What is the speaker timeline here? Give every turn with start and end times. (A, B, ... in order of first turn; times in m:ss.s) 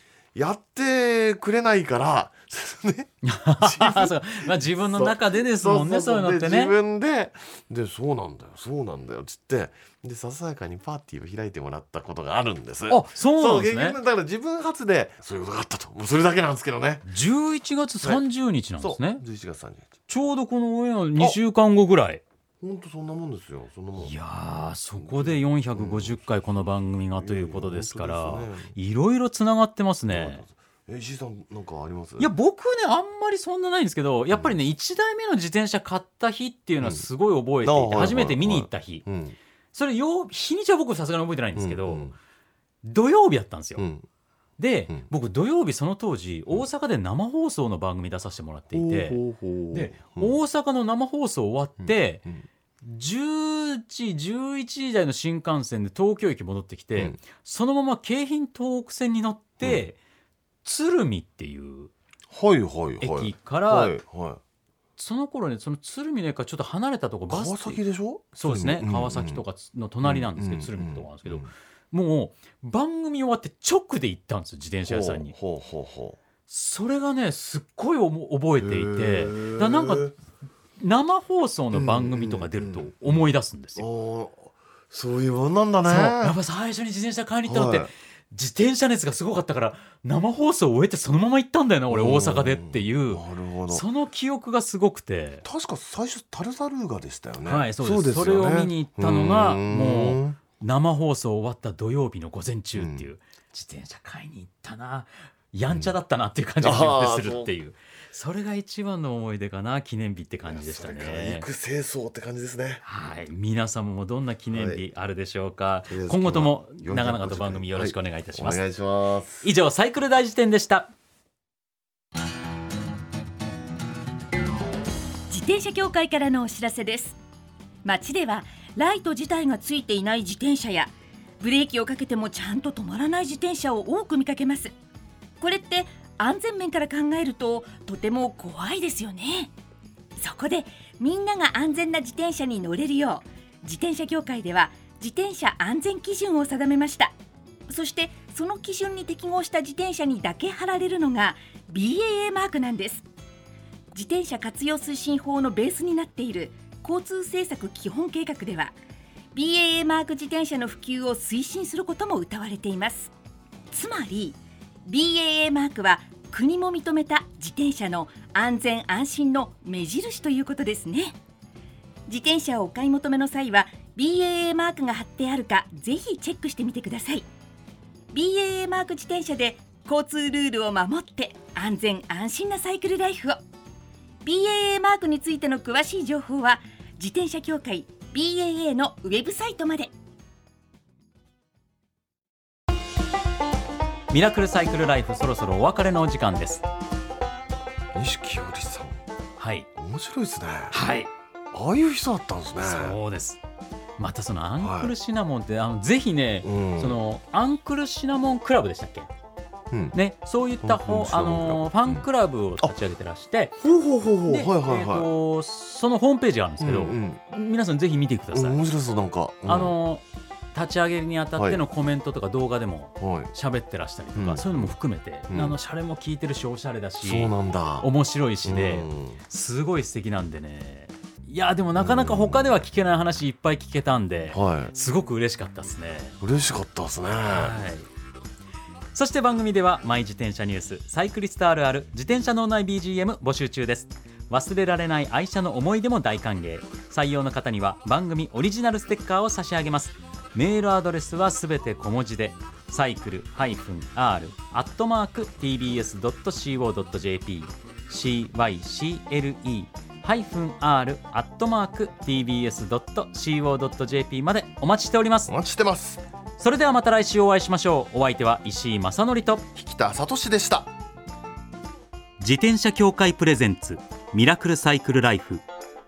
0:00.4-0:17.1 A
0:03.2-0:06.7 B
0:12.9-0:14.0 B
0:17.1-0:19.2 B
0:18.8-0:19.9 A
0:20.1-0:22.2 B
0:22.6-0:24.2 A
0:24.0-0:30.4 B
0:25.0-0:26.2 A
0:27.2-0:28.8 A
0:30.1-0:32.3 A
0:32.2-0:39.1 B
0:36.8-0:37.1 A
0:37.6-0:39.4 A
0:39.7-0:42.1 B
0:41.6-0:42.2 A
0:42.8-0:43.9 B
0:43.8-0:44.1 A
0:44.6-0:49.2 B
0:48.7-0:50.4 A
0:49.7-0:52.2 B
0:51.8-0:52.5 A
0:52.8-1:00.0 B
1:00.6-1:01.9 B
1:02.3-1:04.4 A
1:03.0-1:04.0 B
1:05.0-1:15.4 B
1:07.3-1:09.4 A
1:10.0-1:11.5 A
1:14.9-1:16.2 A
1:16.5-1:20.1 B
1:18.6-1:20.1 A
1:20.8-1:23.8 B
1:21.7-1:23.3 A
1:23.8-1:26.4 A
1:25.9-1:35.4 B
1:27.5-1:27.9 A
1:31.9-1:33.8 A
1:35.4-1:40.4 A
1:37.4-1:51.5 B
1:42.8-1:43.1 A
1:46.6-1:47.6 A
1:50.5-1:52.8 A
1:52.8-1:58.6 B
1:54.5-1:54.8 A
1:55.9-1:59.5 A
1:59.4-2:00.9 B
2:05.3-2:07.2 C
2:07.8-2:14.7 C
2:15.4-2:19.5 C
2:20.2-2:27.1 C
2:27.7-2:33.0 C
2:33.9-2:38.8 C
2:39.3-2:43.1 C
2:43.7-2:51.2 C
2:52.1-2:57.3 C
2:58.1-3:03.4 C
3:04.2-3:09.9 C
3:14.1-3:16.6 B
3:17.9-3:19.0 A
3:19.4-3:19.7 B
3:19.8-3:20.8 A
3:20.7-3:21.1 B
3:21.5-3:23.0 A
3:22.6-3:23.4 B
3:24.0-3:29.1 B
3:24.6-3:24.9 A
3:26.4-3:27.0 A
3:29.7-3:30.0 A
3:29.9-3:33.6 B
3:30.6-3:32.0 A
3:33.6-3:35.1 A
3:34.3-3:38.6 B
3:36.6-3:37.2 A
3:38.3-3:39.7 A
3:39.5-3:40.0 B
3:40.5-3:56.2 B
3:43.0-3:43.3 A
3:44.2-3:44.7 A
3:45.3-3:45.6 A
3:47.0-3:47.9 A
3:48.4-3:49.2 A
3:51.8-3:52.5 A
3:54.3-3:54.7 A
3:56.2-3:57.6 A
3:57.3-3:57.9 B
3:58.9-4:25.3 B
4:25.3-4:26.0 A
4:26.4-4:29.5 B
4:29.6-4:30.7 A
4:32.2-4:35.4 B